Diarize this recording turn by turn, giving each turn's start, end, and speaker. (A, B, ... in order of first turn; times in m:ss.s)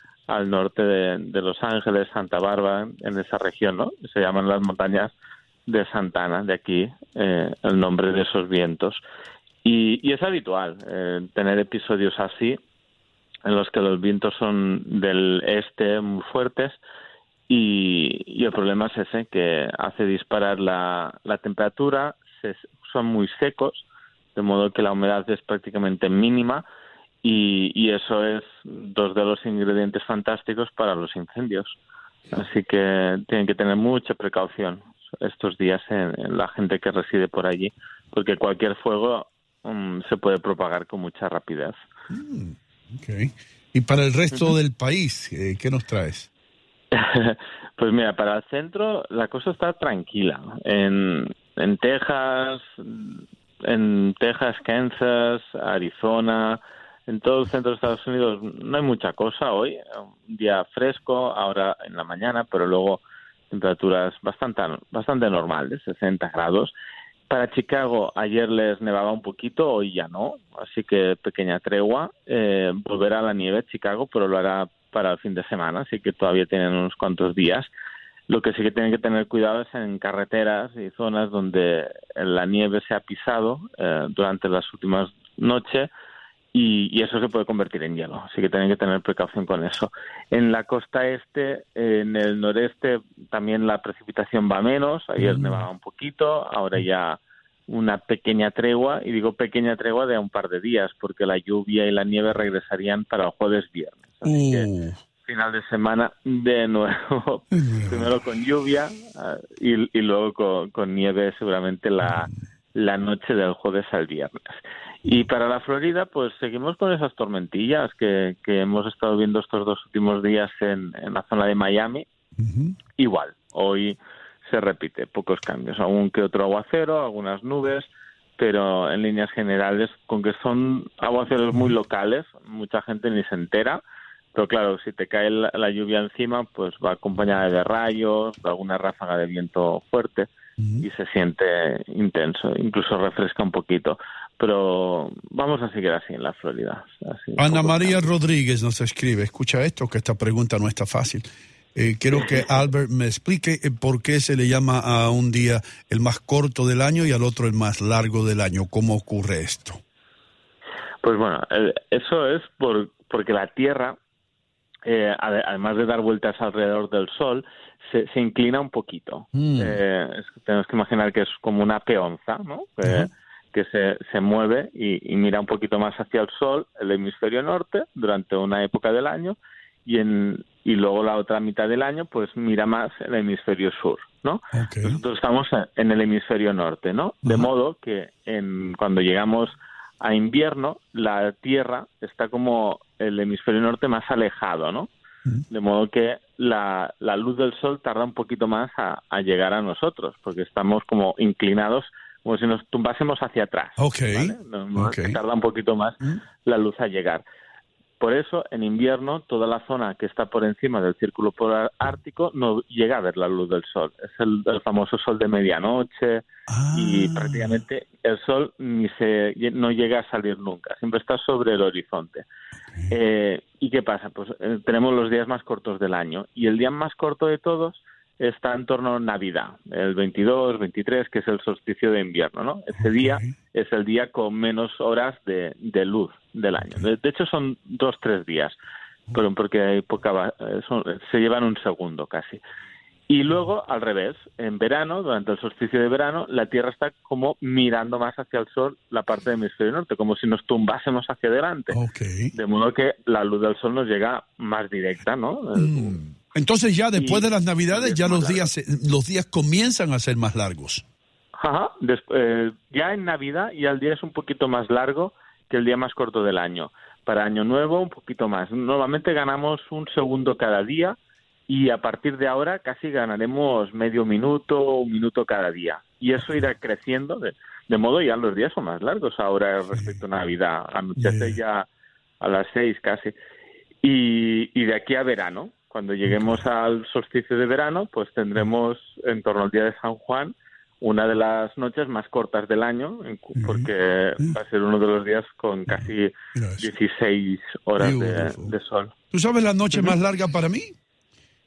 0:00.3-0:05.1 A
0:05.7-0:09.0 A
0:09.6-0:12.6 A
0:13.4-0:16.8 A
0:17.5-0:23.8 A
0:24.4-0:26.6 A
0:27.2-0:31.7 A
0:32.3-0:41.8 A
0:42.1-0:46.3 B
0:46.9-1:06.7 A
1:07.3-1:17.7 A
1:18.3-1:25.9 A
1:26.5-1:44.7 A
1:35.2-1:35.7 B
1:44.2-1:45.0 B
1:45.2-2:02.0 A
1:47.5-1:48.1 B
1:52.0-1:52.3 B
2:02.4-2:02.8 B
2:03.0-2:13.8 A
2:14.3-2:20.3 A
2:20.6-2:20.8 B
2:20.8-2:28.1 A
2:27.4-2:39.8 B
2:41.0-2:44.0 A
2:44.8-3:14.9 A
2:49.3-2:49.8 B
2:52.8-2:53.1 B
3:04.5-3:05.0 B
3:07.2-3:07.5 B
3:15.5-3:27.2 A
3:23.8-3:25.2 B
3:28.0-3:42.2 A
3:36.5-3:37.6 B
3:42.9-3:58.6 A
3:52.7-3:53.4 B
3:59.1-4:02.4 A
4:03.1-4:11.8 A
4:11.7-4:12.3 B
4:12.3-4:16.0 A
4:15.6-4:20.8 B
4:17.0-4:18.5 A
4:21.4-4:31.0 A
4:31.5-4:41.7 A
4:39.7-4:40.0 B
4:41.0-4:41.4 B
4:42.2-4:43.2 A
4:43.8-4:58.9 A
4:46.1-4:46.4 B
4:53.3-4:54.4 B
4:55.7-4:56.7 B
4:57.8-4:58.5 B
4:59.1-5:00.7 B